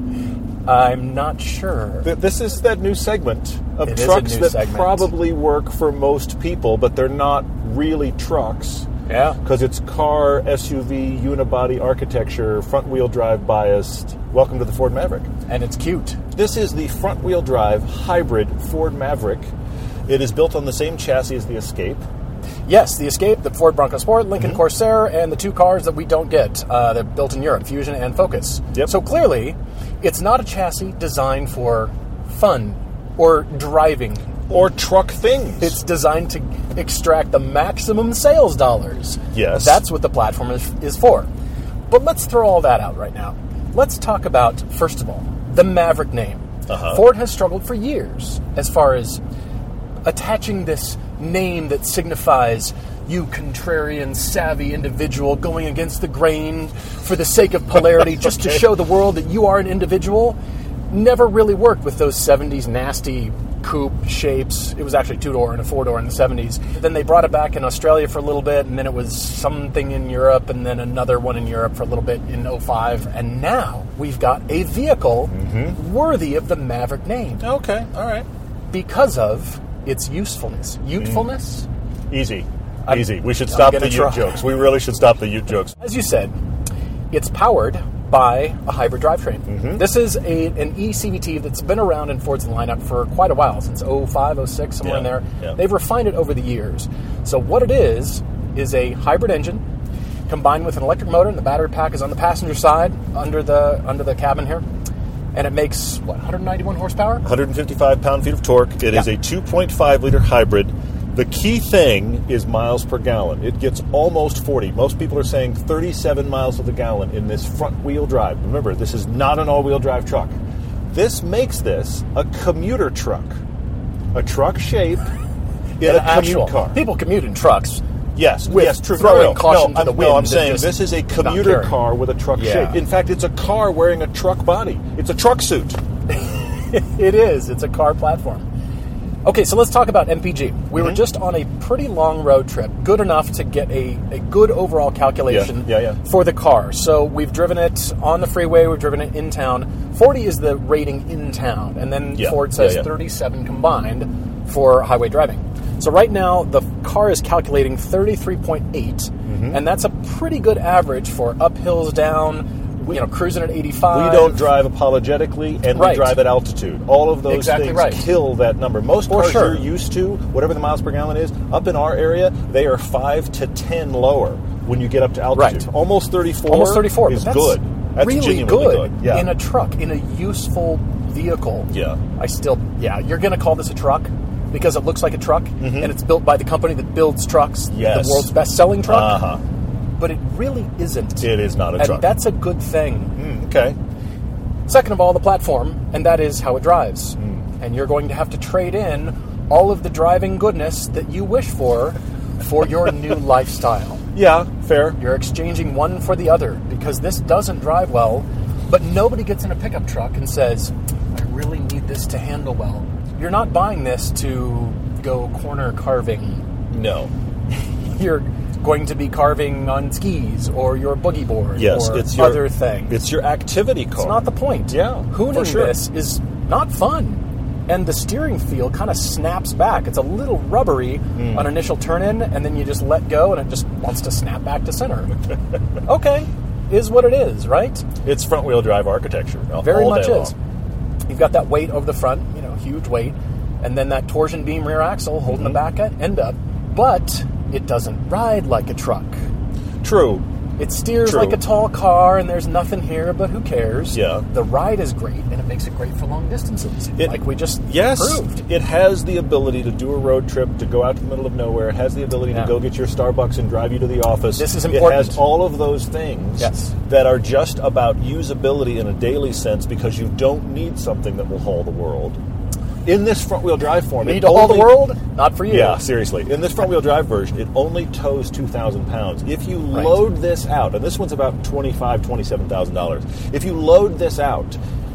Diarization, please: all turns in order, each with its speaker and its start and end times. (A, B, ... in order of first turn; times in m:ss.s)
0:00.6-0:02.1 A
0:02.0-0:08.9 B
0:03.8-0:05.1 A
0:09.1-0:09.4 A
0:09.4-0:15.3 B
0:15.5-0:16.2 A
0:16.3-0:19.5 B
0:20.1-0:22.0 B
0:22.6-0:34.2 A
0:34.5-0:35.8 B
0:35.6-0:41.3 A
0:39.3-0:39.8 B
0:41.9-0:49.2 A
0:46.7-0:47.0 B
0:50.0-1:00.4 A
1:00.9-1:17.4 A
1:15.3-1:15.8 B
1:17.4-1:18.3 B
1:18.7-1:21.7 A
1:21.0-1:21.2 B
1:22.1-1:25.8 B
1:22.8-1:24.4 A
1:25.8-1:26.3 A
1:27.1-1:39.6 A
1:29.5-1:29.8 B
1:34.8-1:35.6 B
1:40.3-1:44.6 A
1:45.3-1:47.2 A
1:47.2-2:03.4 B
2:04.1-2:05.1 B
2:05.8-2:06.8 B
2:05.8-2:07.8 A
2:08.2-2:15.8 B
2:08.4-2:11.8 A
2:12.3-2:12.8 A
2:16.1-2:18.5 A
2:19.2-2:44.5 A
2:25.3-2:26.0 B
2:32.1-2:32.9 B
2:39.2-2:39.6 B
2:43.9-2:59.3 B
2:45.7-2:46.2 A
2:47.3-2:48.2 A
2:49.1-2:49.7 A
2:55.3-2:55.7 A
2:56.4-3:09.2 A
3:01.7-3:02.0 B
3:05.6-3:05.9 B
3:07.7-3:08.3 B
3:08.8-3:09.4 B
3:10.0-3:13.1 A
3:11.2-3:12.2 B
3:13.2-3:13.8 B
3:14.7-3:24.0 A
3:17.2-3:17.5 B
3:24.1-3:25.0 B
3:25.0-3:36.4 A
3:36.7-3:37.1 B
3:37.8-3:43.0 A
3:41.6-3:45.8 B
3:44.0-3:55.1 A
3:51.2-3:51.5 B
3:55.8-3:57.8 A
3:58.0-4:00.3 B
3:59.6-4:00.4 A
4:01.1-4:09.2 A
4:05.3-4:05.6 B
4:09.8-4:10.2 B
4:10.6-4:18.4 A
4:11.0-4:11.4 B
4:13.9-4:14.2 B
4:17.7-4:32.2 B
4:22.3-4:22.5 A
4:24.4-4:25.2 A
4:26.4-4:26.7 A
4:32.8-4:34.8 B
4:34.0-4:35.8 A
4:35.5-4:44.6 B
4:39.7-4:40.0 A